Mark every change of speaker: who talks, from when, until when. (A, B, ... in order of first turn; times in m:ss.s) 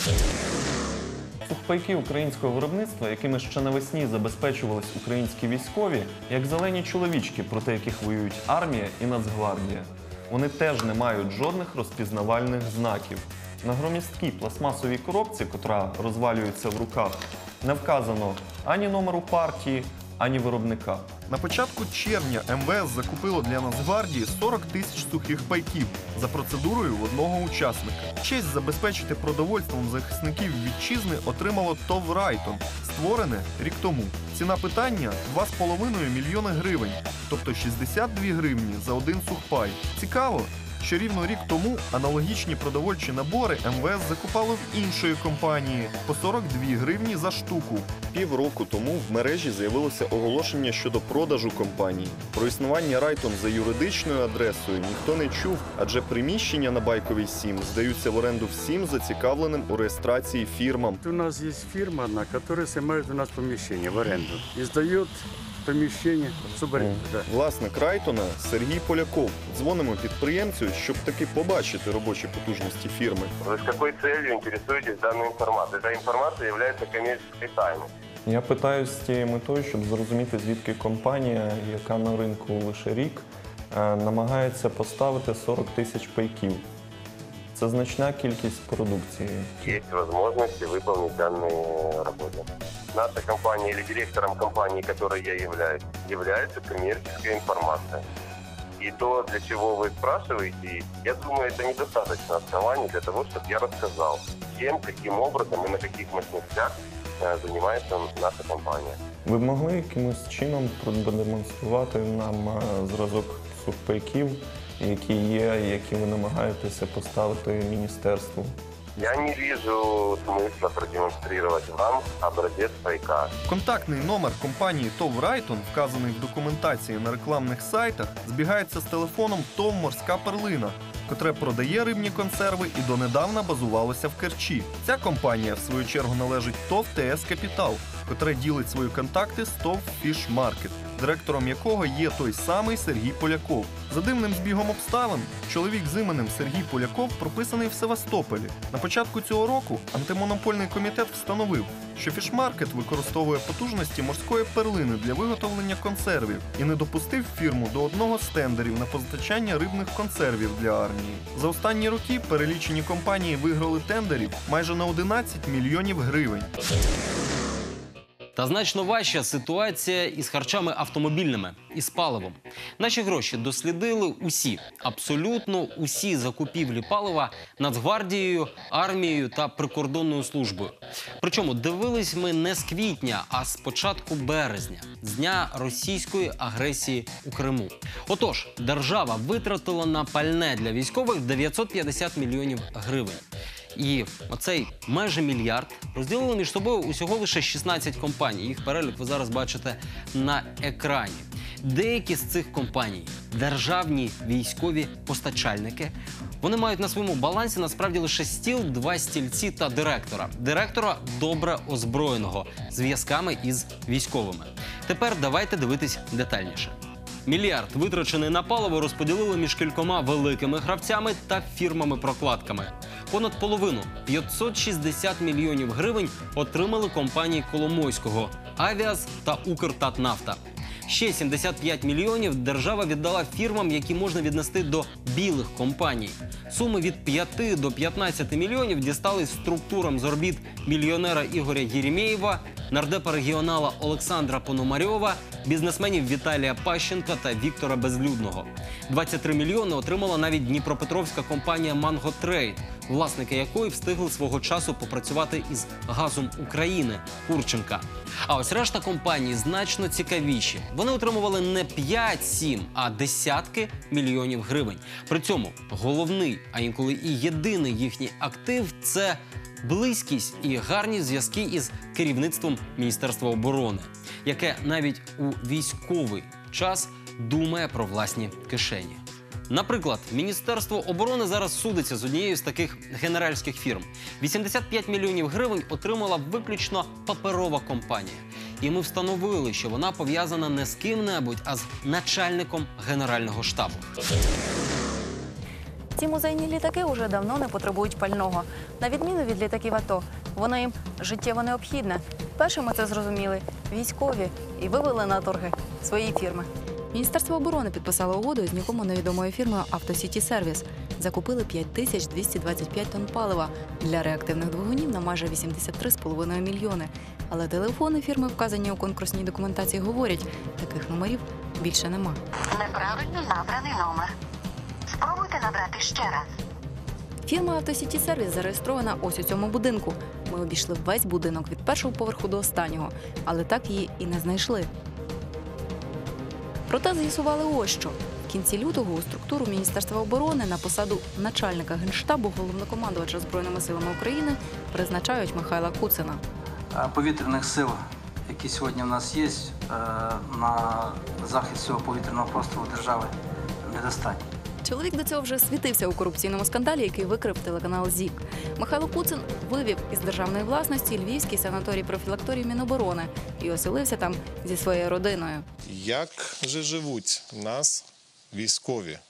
0:01.4-0:21.2 A
0:21.2-1:01.0 B
1:01.0-1:07.3 C
1:06.8-1:13.3 B
1:13.4-1:17.9 D
1:18.2-1:26.6 A
1:27.5-1:29.7 A
1:29.6-1:38.0 D
1:38.8-1:49.0 D
1:49.2-1:58.6 A
1:59.0-2:03.3 D
2:03.4-2:46.5 B
2:48.4-4:53.9 E
4:56.0-5:22.2 F
5:22.5-5:24.1 G
5:24.9-5:26.3 G
5:27.2-5:34.7 F
5:36.7-5:46.2 F
5:46.7-5:54.3 H
5:54.6-6:05.4 F
6:05.6-6:09.0 I